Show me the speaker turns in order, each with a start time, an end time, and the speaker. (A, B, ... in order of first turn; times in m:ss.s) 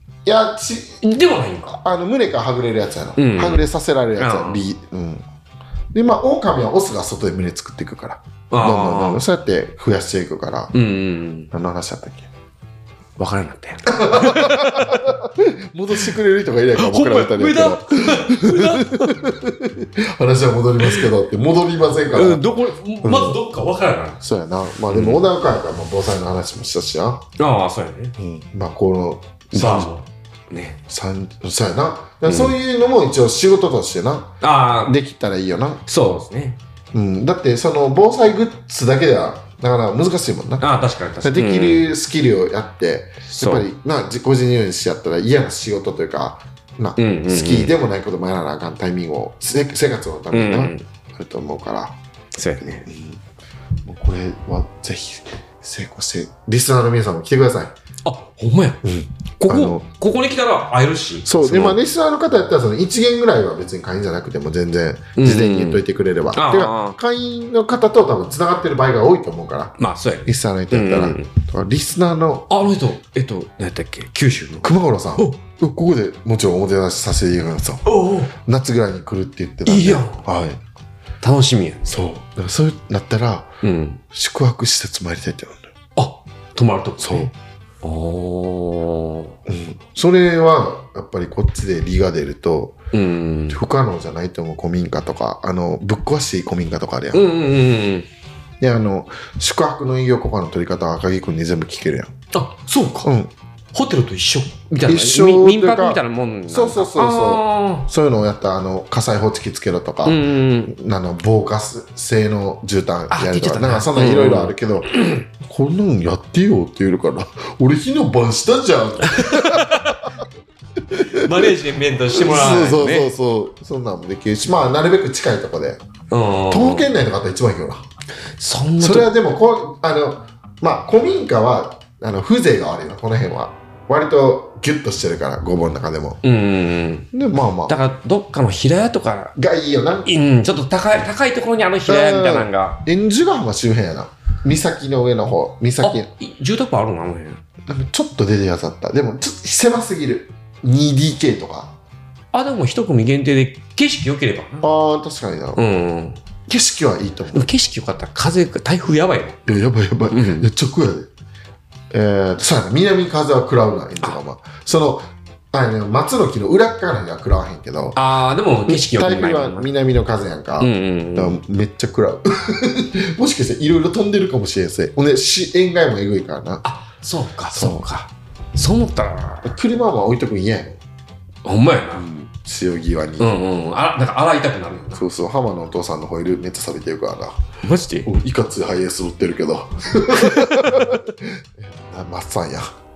0:00.2-0:01.0 A
0:01.0-0:01.8 B
0:01.7-0:05.2 A
0:03.2-0:03.6 B
0:04.2-0:04.6 B
0:05.9-0:10.7 A
0:08.5-0:09.3 B
0:10.7-0:11.5 B
0:11.5-0:12.3 A
0:13.2-0:15.0 B
0:13.9-0:22.5 A
0:16.8-0:19.3 B
0:20.8-0:21.1 B
0:22.1-0:24.2 B
0:23.0-0:23.4 A
0:24.2-0:27.2 A
0:24.9-0:25.3 B
0:27.4-0:28.2 B
0:28.2-0:29.9 A
0:29.5-0:30.8 B
0:30.9-0:34.3 A
0:32.3-0:32.6 B
0:34.4-0:35.0 B
0:34.8-0:35.8 A
0:35.9-0:36.6 B
0:36.9-0:40.7 A
0:40.6-0:41.9 B
0:41.2-0:52.0 A
0:43.3-0:43.7 B
0:47.0-0:47.7 B
0:50.3-0:50.9 B
0:52.4-0:52.9 B
0:52.6-0:53.2 A
0:53.8-0:57.7 A
0:58.0-0:58.8 B
0:58.8-0:59.9 A
0:59.4-1:01.8 B
1:01.2-1:09.7 A
1:05.2-1:05.8 B
1:06.4-1:07.0 B
1:09.8-1:11.3 B
1:10.3-1:12.5 A
1:12.5-1:15.4 B
1:14.6-1:20.6 A
1:17.8-1:18.3 B
1:19.7-1:20.3 B
1:21.2-1:21.9 B
1:21.9-1:23.5 A
1:23.6-1:24.0 B
1:24.1-1:25.7 A
1:26.0-1:29.4 B
1:27.0-1:27.3 A
1:29.4-1:32.8 A
1:32.9-1:33.6 B
1:33.5-1:37.3 A
1:37.1-1:38.1 B
1:38.6-1:42.1 A
1:42.3-1:43.1 B
1:43.0-1:43.3 A
1:43.7-1:47.9 B
1:44.8-1:54.9 A
1:50.0-1:50.7 B
1:53.1-1:55.2 B
1:55.4-2:00.1 A
1:59.0-2:00.1 B
2:00.9-2:01.6 A
2:00.9-2:03.1 B
2:02.1-2:05.8 A
2:06.1-2:06.9 B
2:06.5-2:07.8 A
2:08.4-2:09.1 B
2:08.8-2:16.2 A
2:16.2-2:17.1 B
2:17.1-2:17.8 A
2:17.7-2:19.4 B
2:19.4-2:20.1 A
2:20.0-2:22.8 B
2:21.9-2:26.1 A
2:25.8-2:27.4 B
2:27.7-2:31.7 A
2:32.3-2:34.7 B
2:34.6-2:35.6 A
2:35.6-2:36.2 B
2:36.5-2:37.5 A
2:37.3-2:39.4 B
2:39.4-2:41.1 A
2:40.1-2:40.5 B
2:41.9-2:48.0 A
2:48.0-2:49.7 B
2:48.7-2:56.6 A
2:50.6-2:51.4 B
2:56.6-2:59.6 B
2:57.5-2:57.9 A
2:59.4-3:00.8 A
3:01.4-3:02.2 B
3:02.0-3:03.3 A
3:03.2-3:05.0 B
3:05.0-3:07.4 A
3:07.6-3:08.1 B
3:08.0-3:12.7 A
3:10.1-3:10.9 B